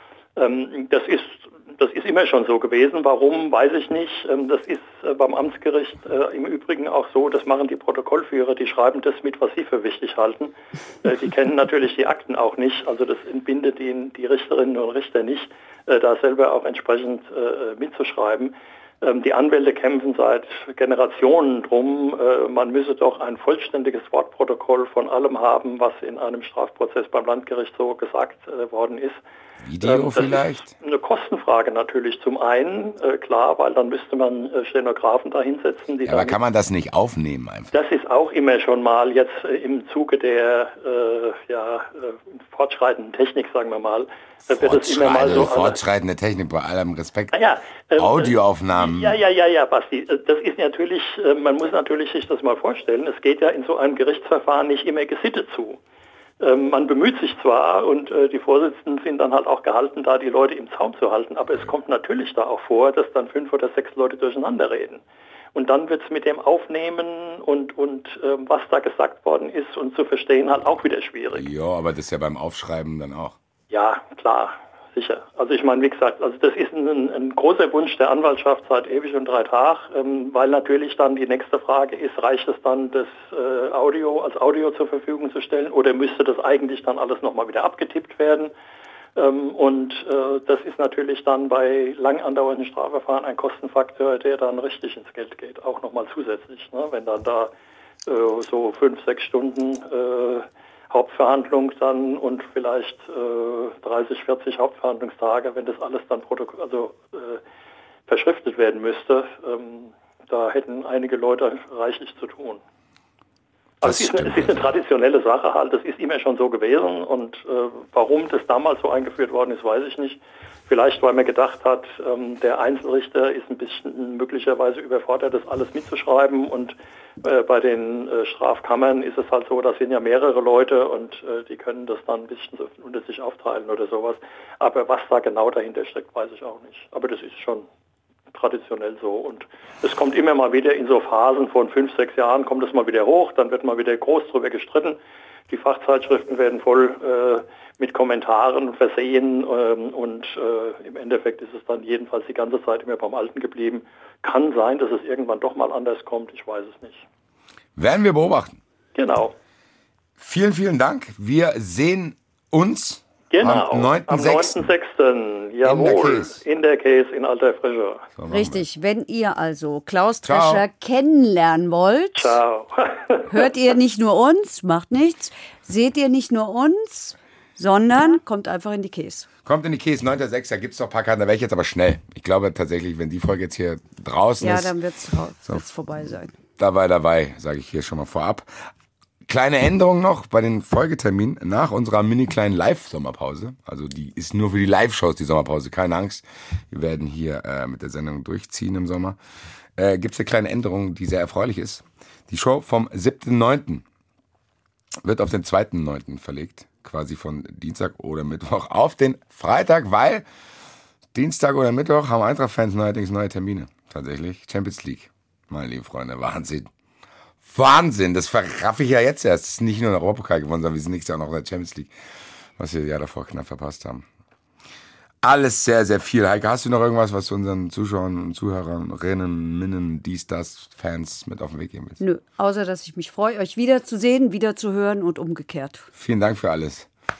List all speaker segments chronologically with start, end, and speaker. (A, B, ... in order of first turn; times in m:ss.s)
0:00.4-0:29.2 A
0:29.6-0:30.7 B
0:29.8-0:36.4 A
0:36.0-0:37.7 B
0:37.7-0:45.8 A
0:44.5-0:47.4 B
0:47.3-0:55.8 A
0:48.0-0:49.2 B
0:56.4-1:05.0 A
1:05.5-1:11.4 A
1:11.3-1:13.4 B
1:13.7-1:28.5 A
1:29.2-1:37.5 A
1:38.0-1:47.4 A
1:48.1-1:52.6 A
1:53.8-2:17.6 A
1:53.8-1:54.7 B
2:18.3-2:25.0 A
2:25.5-2:37.0 A
2:37.8-2:38.6 B
2:38.9-2:39.3 A
2:40.2-2:44.7 B
2:43.3-2:48.0 A
2:45.6-2:46.4 B
2:48.2-2:48.6 B
2:48.3-2:52.4 C
2:50.2-2:50.6 B
2:52.2-2:53.5 A
2:53.3-2:59.3 C
2:59.4-3:04.8 B
3:04.4-3:06.3 C
3:06.6-3:08.7 B
3:09.3-3:19.2 B
3:19.8-3:23.8 B
3:25.0-3:30.2 B
3:31.1-3:36.7 B
3:37.4-3:41.9 B
3:42.6-3:44.0 B
3:45.2-3:52.0 B
3:52.0-3:55.9 C
3:55.9-3:56.9 B